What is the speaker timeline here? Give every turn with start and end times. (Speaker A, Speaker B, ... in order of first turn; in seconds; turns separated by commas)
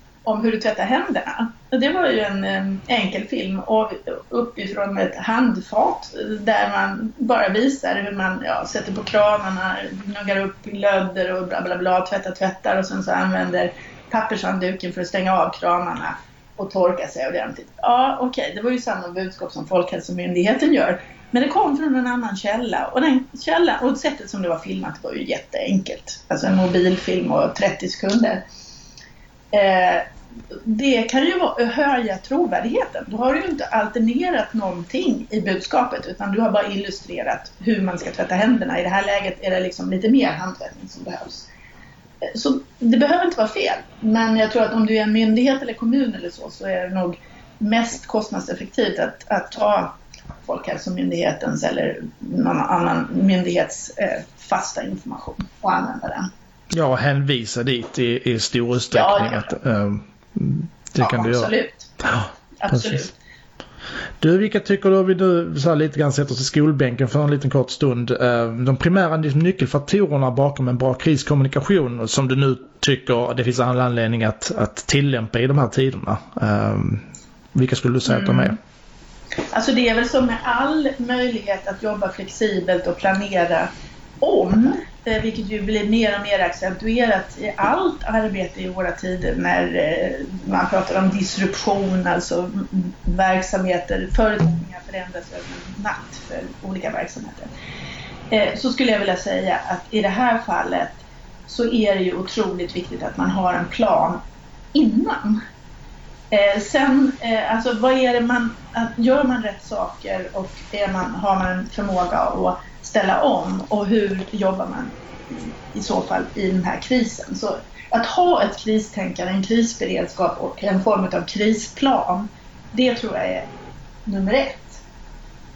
Speaker A: 0.2-28.4, Speaker A: 29.5-41.5, Speaker A: 42.2-56.3, Speaker B: 56.7-61.5, Speaker A: 58.9-59.5, Speaker A: 61.0-61.9, Speaker B: 62.0-63.0, Speaker A: 62.6-63.1, Speaker B: 64.2-78.6, Speaker A: 78.1-78.6, Speaker A: 79.5-83.7, Speaker A: 84.2-97.5, Speaker A: 98.3-104.2, Speaker A: 104.7-105.4, Speaker A: 106.3-123.5, Speaker A: 124.1-124.8